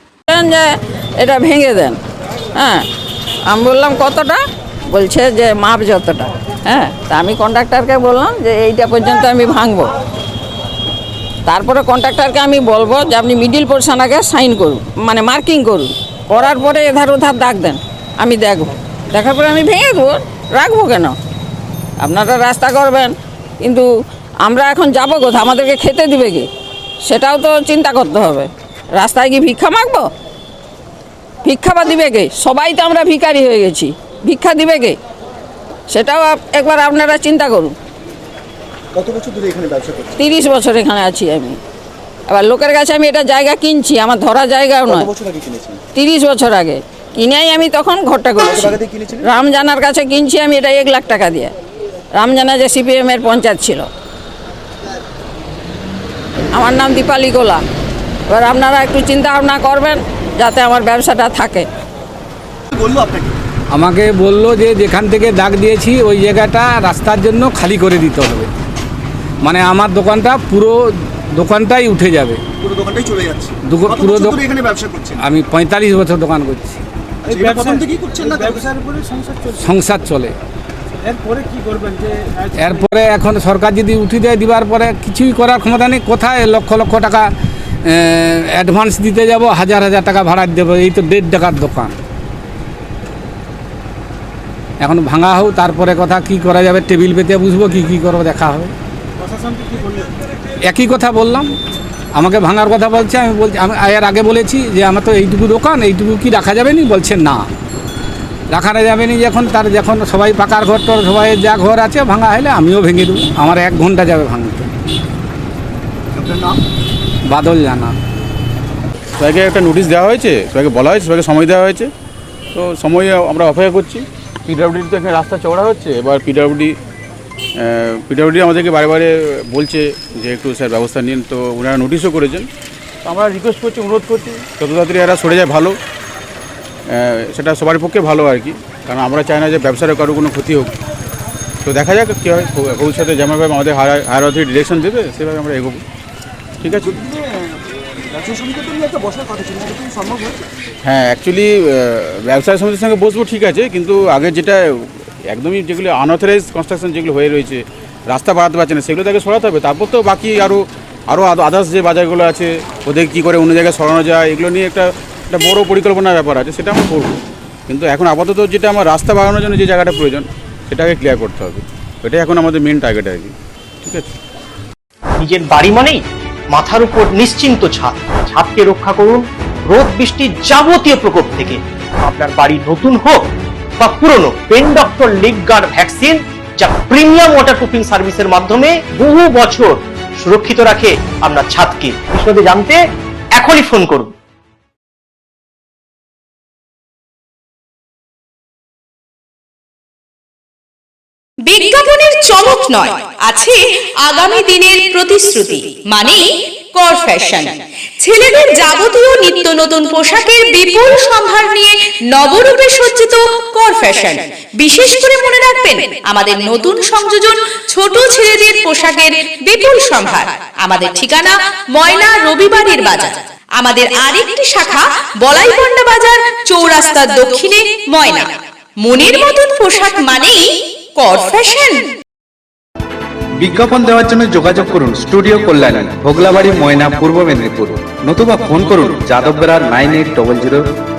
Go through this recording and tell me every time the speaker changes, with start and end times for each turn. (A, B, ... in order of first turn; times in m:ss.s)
0:00.3-0:02.0 A
0:02.6-0:02.9 A
0:03.5-0:09.9 A
0:11.5-0:21.1 A
0:22.0-0:23.9 A
0:24.4-0:26.5 A
0:27.1-0:30.1 A
0:31.4-0:35.0 A
0:35.9-0:37.7 A
0:38.9-0:40.2 B
0:40.2-0:41.6 A
0:42.3-0:45.1 A
0:44.8-0:45.8 B
0:45.9-0:51.5 A
0:48.4-0:49.3 B
0:52.2-0:53.9 A
0:56.5-0:57.6 A
0:58.3-1:01.6 A
1:02.7-1:03.4 B
1:03.7-1:08.5 C
1:09.4-1:10.8 C
1:11.3-1:12.4 C
1:12.6-1:15.2 B
1:13.7-1:14.4 C
1:15.2-1:16.8 C
1:17.3-1:18.7 B
1:17.3-1:19.6 D
1:19.6-1:20.3 C
1:21.1-1:22.8 D
1:22.6-1:27.3 C
1:27.8-1:31.9 C
1:34.8-1:38.7 C
1:39.2-1:40.1 D
1:40.6-1:41.5 C
1:42.2-1:47.5 C
1:48.5-1:54.7 C
1:56.1-1:56.6 B
1:57.3-1:57.9 C
1:59.2-2:01.8 E
2:02.5-2:06.7 E
2:07.6-2:12.4 E
2:13.0-2:15.7 E
2:16.9-2:20.7 E
2:21.7-2:25.8 E
2:26.6-2:26.9 E
2:26.6-2:27.6 B
2:28.1-2:30.4 B
2:30.8-2:34.6 E
2:35.3-2:47.2 E
2:47.7-2:53.3 E
2:53.8-2:54.1 E
2:55.4-2:56.0 F
2:56.8-2:59.2 F
2:59.8-3:01.6 F
3:02.1-3:03.1 F
3:03.9-3:06.2 F
3:06.7-3:09.7 F
3:10.2-3:12.8 F
3:13.4-3:14.1 F
3:21.4-3:51.8 G
3:53.4-4:00.7 H